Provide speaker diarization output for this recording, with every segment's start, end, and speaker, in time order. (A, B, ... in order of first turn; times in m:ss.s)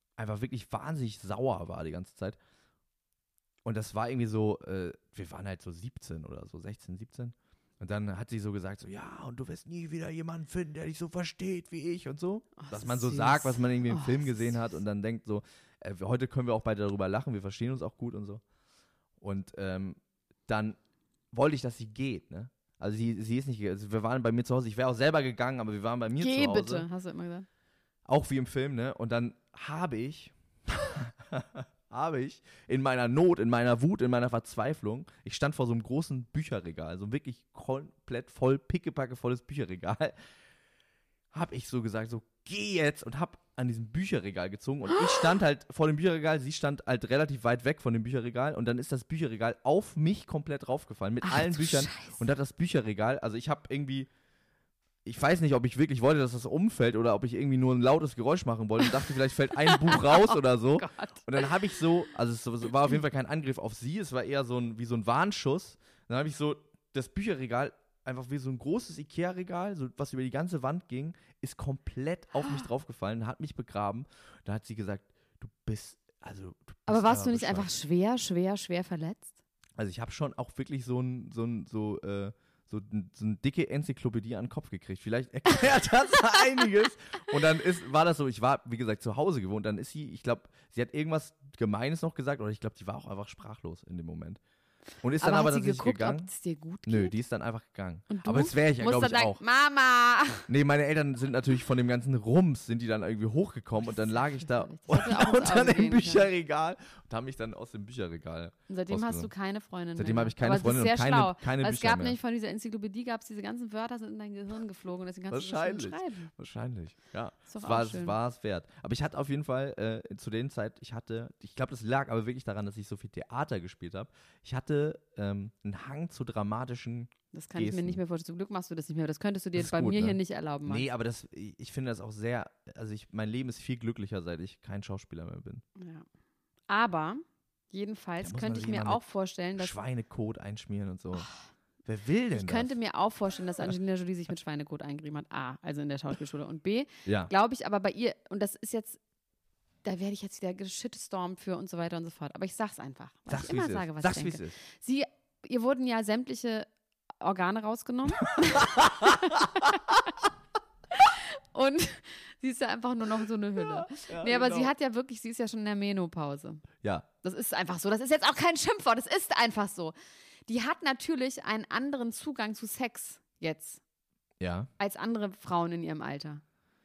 0:00.2-0:02.4 A
0:03.6-0:18.4 A
0:12.6-0:14.6 B
0:19.2-0:20.8 A
0:21.3-0:26.9 A
0:26.2-0:27.4 B
0:28.0-0:40.1 A
0:41.3-0:54.1 A
0:51.2-0:52.2 B
0:55.0-1:17.7 A
0:59.7-1:01.5 B
1:16.9-1:19.3 B
1:19.8-1:34.4 A
1:35.0-1:36.3 A
1:35.2-1:37.2 B
1:36.8-1:39.4 A
1:38.1-1:40.5 B
1:40.5-1:49.3 A
1:43.8-1:46.3 B
1:48.7-1:56.3 B
1:50.0-1:52.2 A
1:55.3-2:08.0 A
1:57.5-1:58.2 B
2:07.3-2:10.8 B
2:09.6-2:15.6 A
2:15.8-2:16.0 B
2:16.7-2:19.7 B
2:18.2-2:19.0 A
2:19.6-2:21.3 A
2:21.8-2:22.7 A
2:22.3-2:29.0 B
2:27.0-2:27.3 A
2:29.8-2:36.7 B
2:33.3-2:34.6 A
2:37.2-2:40.2 B
2:38.4-2:39.7 A
2:40.9-2:46.6 B
2:43.6-2:44.7 A
2:47.2-2:49.9 B
2:50.5-2:53.8 B
2:54.4-2:54.7 A
2:54.8-2:56.4 B